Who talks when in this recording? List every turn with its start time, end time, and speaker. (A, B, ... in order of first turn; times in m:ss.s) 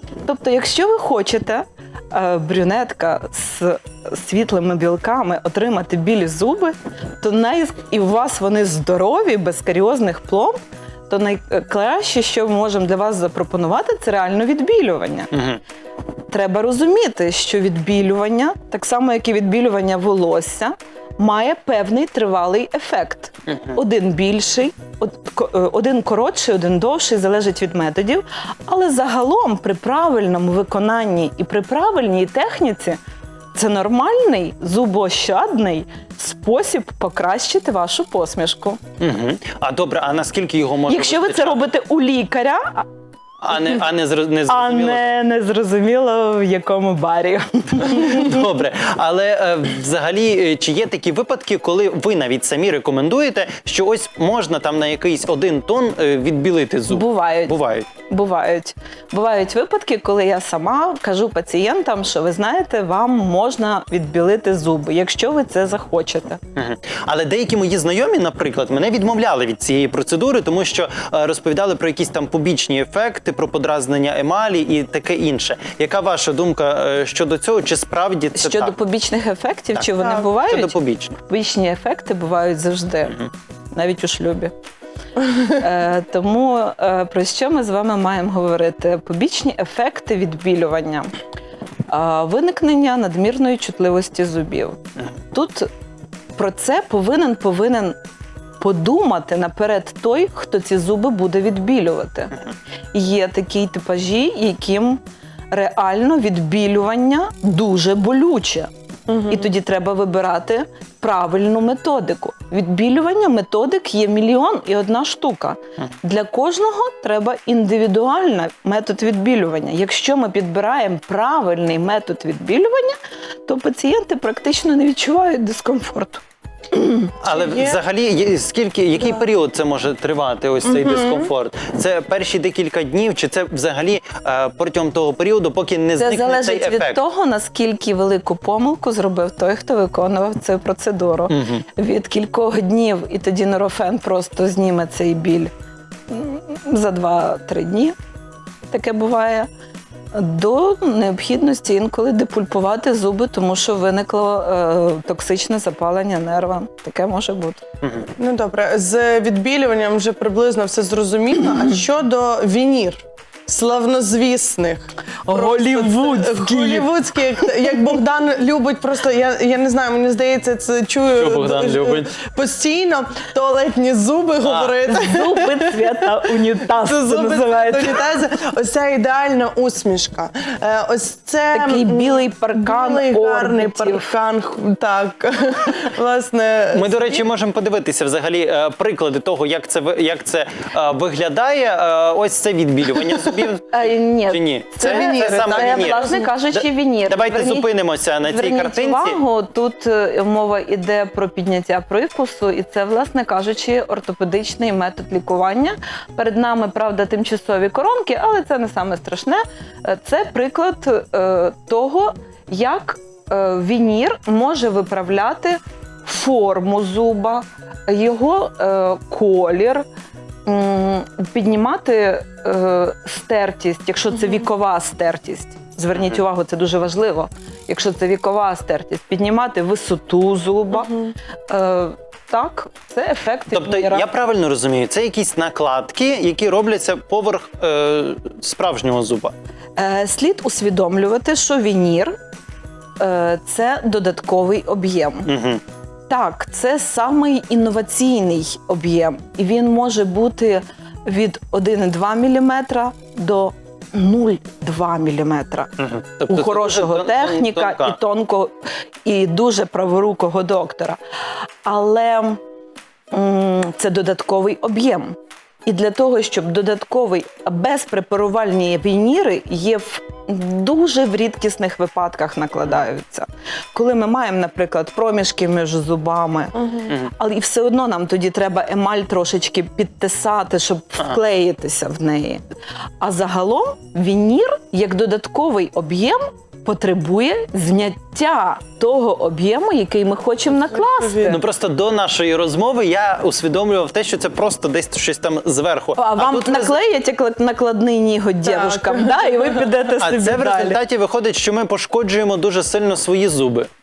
0:00.2-0:10.6 A
0:11.1-0:15.3 A
0:15.3-0:15.6 B
0:16.3-0:33.0 A
0:33.5-0:38.8 A
0:39.0-0:41.7 B
0:40.9-0:42.8 A
0:43.4-0:45.1 B
0:44.5-0:48.4 A
0:47.8-0:57.9 B
0:56.9-1:06.4 A
1:06.6-1:18.7 B
1:18.3-1:24.5 A
1:19.8-1:21.1 B
1:25.3-1:31.1 A
1:31.9-1:34.8 A
1:35.3-1:35.7 A
1:36.4-1:38.0 A
1:38.6-1:42.3 A
1:42.9-1:48.7 A
1:49.1-1:49.4 C
1:49.2-2:07.1 A
2:07.2-2:17.0 B
2:07.2-2:07.8 C
2:10.7-2:11.3 C
2:16.0-2:25.5 A
2:21.3-2:21.6 B
2:26.1-2:27.9 A
2:28.7-2:29.5 A
2:30.1-2:37.6 A
2:37.8-2:38.1 B
2:38.2-2:56.1 C
2:45.2-2:46.9 A
2:51.1-2:52.1 B
2:54.4-2:54.7 B
2:54.9-2:58.0 A
2:56.7-3:07.2 C
3:01.5-3:04.1 A
3:06.7-3:19.2 B
3:13.7-3:39.8 A
3:14.8-3:16.3 C
3:40.4-3:54.1 A
3:53.5-3:59.3 B
3:59.8-4:02.1 A
4:03.0-4:05.3 A
4:05.3-4:05.6 B
4:06.1-4:15.7 A
4:15.8-4:18.0 B
4:16.3-4:21.0 A
4:21.6-4:22.4 A
4:23.1-4:42.4 A
4:36.6-4:36.9 C
4:43.0-4:51.4 A
4:50.7-4:51.4 C
4:51.3-4:56.8 B
4:56.0-5:00.8 A
4:58.4-4:59.7 C
5:00.0-5:03.7 B